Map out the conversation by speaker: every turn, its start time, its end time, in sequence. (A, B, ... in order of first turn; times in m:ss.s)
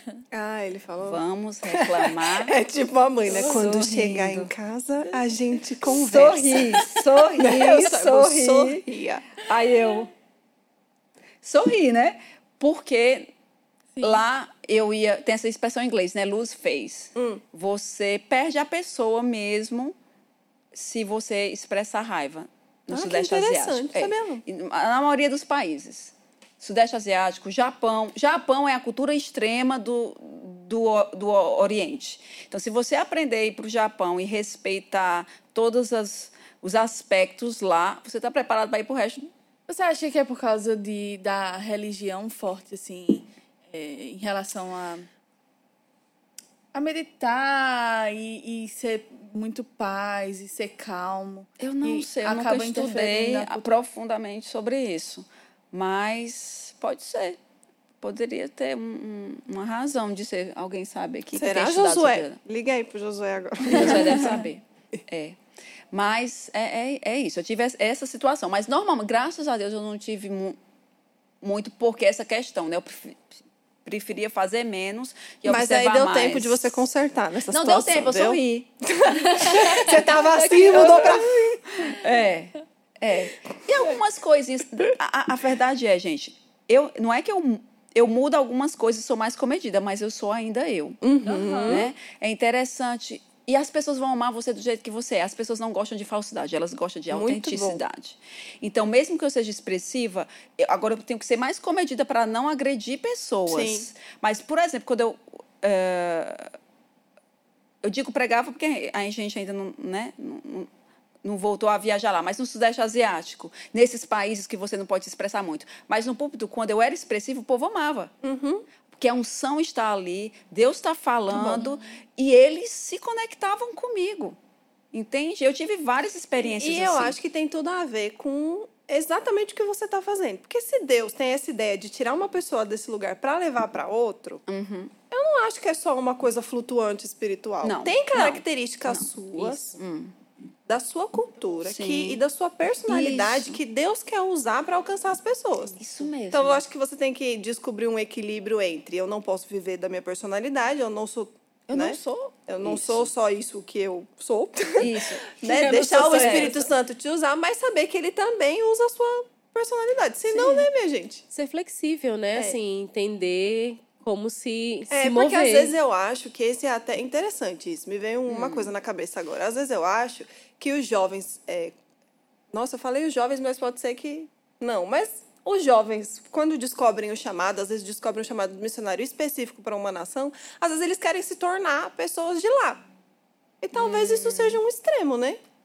0:00.3-0:06.8 A
0:01.0-0:02.6 B
0:03.3-0:04.5 B
0:05.8-0:08.9 B
0:07.4-0:09.4 A
0:09.4-0:10.1 B
0:11.4-0:13.3 B
0:14.0-0:20.0 B
0:17.2-0:17.4 A
0:20.7-0:39.3 B
0:22.9-0:24.4 A
0:39.7-0:45.1 C
0:46.7-0:53.7 C
0:51.6-0:57.4 B
0:58.0-1:02.4 B
1:01.4-1:04.4 A
1:03.7-1:05.4 B
1:05.9-1:10.6 B
1:11.4-1:16.8 B
1:15.5-1:18.4 A
1:17.5-1:19.9 B
1:18.9-1:21.6 A
1:20.3-1:21.1 D
1:20.4-1:31.0 B
1:31.0-1:31.9 A
1:31.2-1:31.8 C
1:31.7-1:46.5 B
1:37.1-1:37.8 A
1:43.5-1:43.8 A
1:47.8-1:50.7 B
1:51.2-1:58.1 B
1:58.2-1:58.7 A
1:58.9-2:04.4 B
2:01.3-2:01.6 A
2:01.6-2:01.8 C
2:04.9-2:07.2 B
2:06.4-2:14.4 A
2:14.5-2:14.9 B
2:15.1-2:19.7 A
2:17.6-2:20.1 B
2:20.7-2:41.3 A
2:21.6-2:22.2 B
2:22.9-2:23.6 B
2:25.8-2:26.6 B
2:31.7-2:33.1 B
2:34.8-2:36.7 B
2:35.5-2:36.6 D
2:40.3-2:40.7 B
2:41.3-2:45.7 D
2:44.9-2:51.7 A
2:48.3-2:48.7 B
2:52.5-3:02.9 A
3:03.6-3:05.4 A
3:03.7-3:04.6 B